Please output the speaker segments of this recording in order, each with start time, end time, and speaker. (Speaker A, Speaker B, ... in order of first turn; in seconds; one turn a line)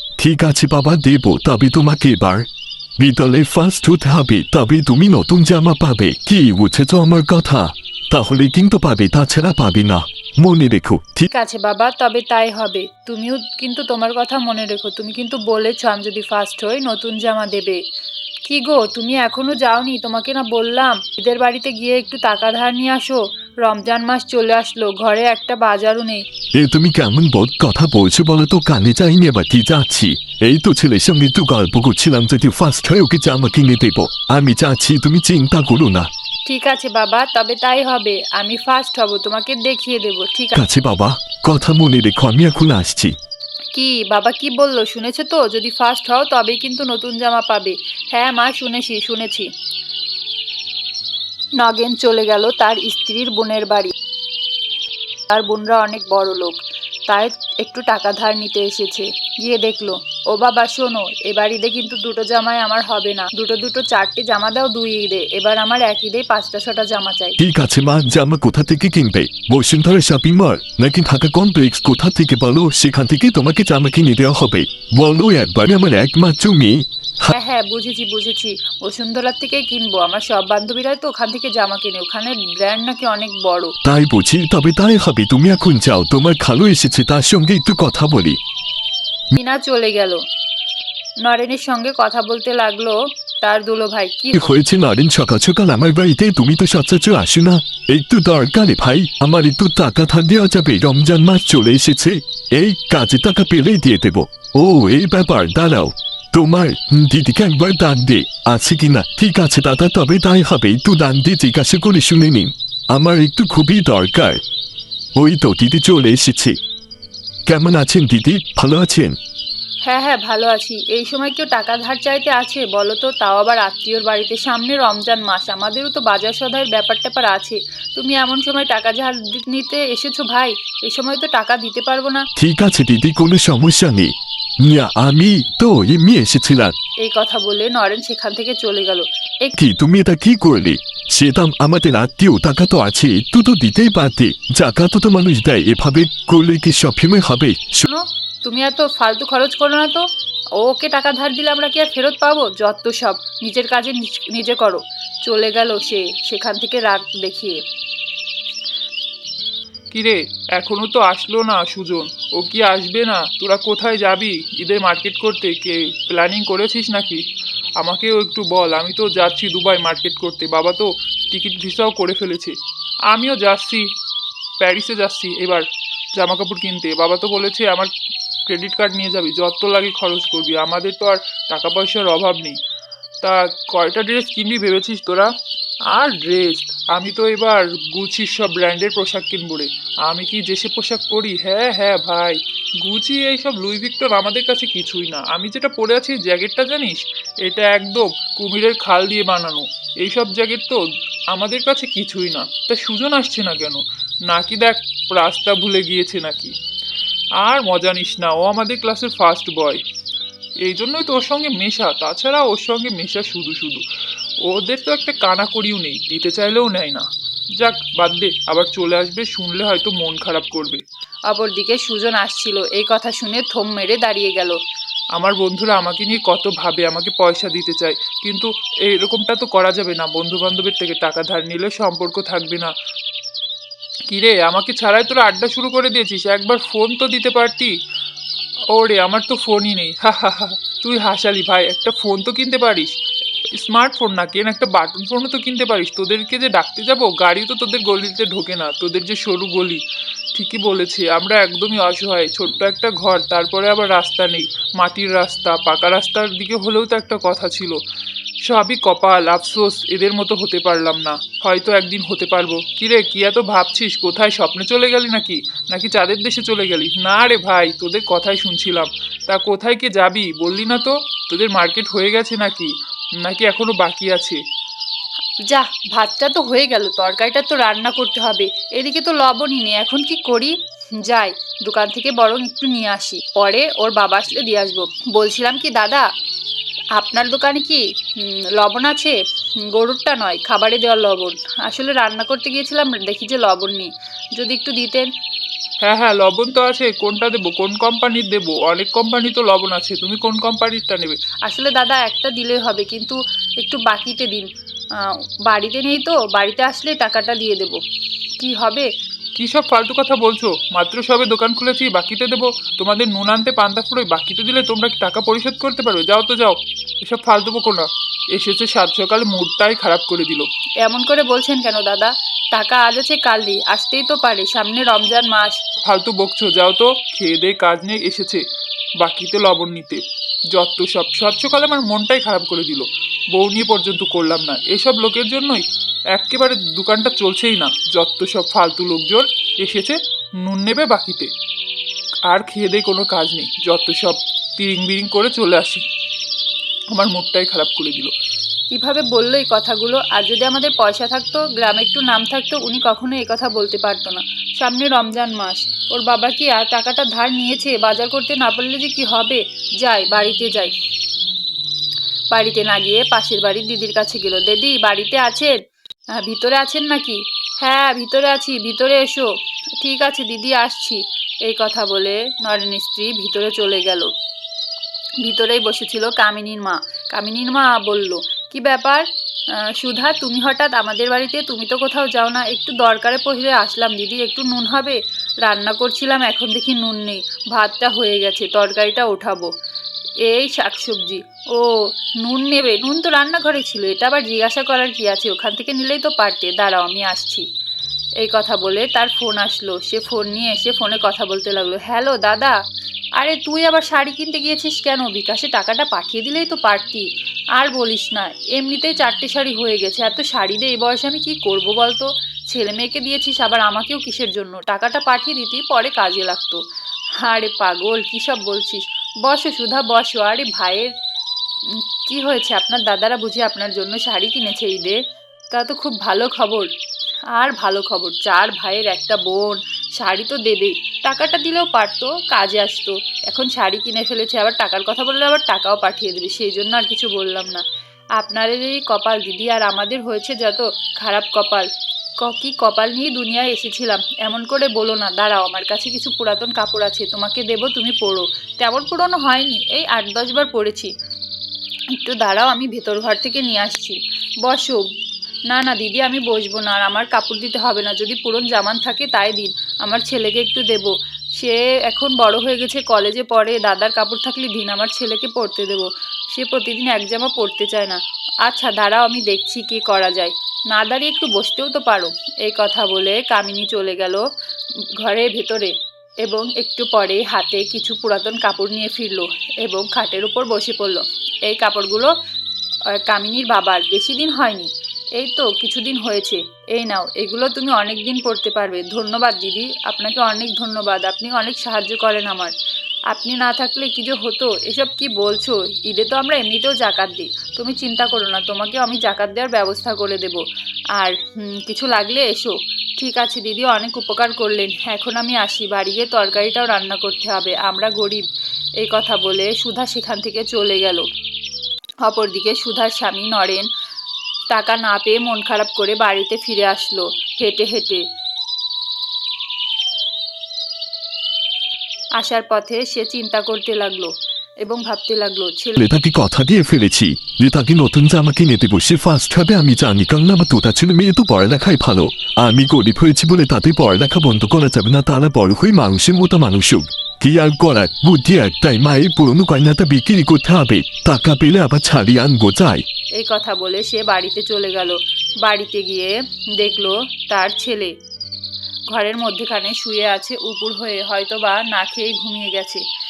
Speaker A: 0.2-2.5
Speaker A: 3.0-11.3
Speaker B: 11.3-17.8
Speaker B: 18.4-26.2
Speaker A: 26.6-36.1
Speaker B: 36.5-40.6
Speaker A: 40.5-43.1
Speaker B: 43.7-49.5
Speaker B: 51.6-53.9
Speaker B: 55.3-67.4
Speaker A: 67.4-77.3
Speaker B: 77.3-83.7
Speaker A: 83.8-88.4
Speaker B: 89.3-90.2
Speaker B: 91.2-94.5
Speaker A: 94.3-114.4
Speaker A: 115.2-116.5
Speaker A: 117.5-119.2
Speaker B: 119.8-132.2
Speaker A: 132.3-134.1
Speaker A: 134.6-136.7
Speaker B: 137.0-139.6
Speaker A: 139.6-147.8
Speaker B: 147.8-150.0
Speaker B: 150.6-157.6
Speaker C: 159.9-167.2
Speaker C: 167.8-172.5
Speaker C: 173.1-173.8
Speaker C: 174.6-175.6
Speaker C: 176.1-177.9
Speaker C: 178.4-182.6
Speaker C: 183.2-185.3
Speaker C: 185.9-200.8
Speaker C: 201.3-206.5
Speaker C: 207.4-209.8
Speaker C: 210.6-213.8
Speaker C: 214.4-217.0
Speaker C: 217.6-220.8
Speaker B: 221.3-224.6
Speaker C: 225.2-232.7
Speaker C: 234.1-237.7
Speaker C: 238.7-242.9
Speaker C: 243.6-249.8
Speaker C: 250.3-257.8
Speaker C: 258.4-274.4
Speaker B: 275.5-286.0
Speaker B: 286.9-289.1
Speaker B: 289.7-295.1
Speaker C: 295.8-301.2
Speaker B: 301.4-307.8
Speaker B: 308.4-308.9
Speaker C: 309.4-320.5
Speaker B: 320.8-325.6
Speaker C: 325.8-328.4
Speaker C: 329.0-330.0
Speaker C: 330.5-335.6
Speaker C: 336.1-341.3
Speaker C: 342.3-345.8
Speaker C: 346.9-348.1
Speaker B: 348.7-360.7
Speaker B: 362.3-365.5
Speaker B: 366.2-374.1
Speaker B: 375.2-379.0
Speaker B: 379.8-389.5
Speaker B: 390.2-397.4
Speaker B: 398.2-402.5
Speaker B: 403.2-416.6
Speaker B: 417.2-420.9
Speaker B: 422.0-425.0
Speaker B: 425.5-426.7
Speaker B: 427.3-437.6
Speaker B: 438.2-441.7
Speaker B: 442.2-450.9
Speaker B: 452.0-454.9
Speaker B: 455.5-474.2
Speaker B: 475.0-482.1
Speaker B: 482.9-492.5
Speaker B: 493.1-500.4
Speaker B: 500.9-508.2
Speaker B: 508.8-511.0
Speaker B: 512.0-513.6
Speaker B: 514.5-518.0
Speaker B: 522.2-524.1
Speaker B: 524.6-525.8
Speaker A: 525.8-542.8
Speaker B: 543.2-547.9
Speaker B: 548.9-552.8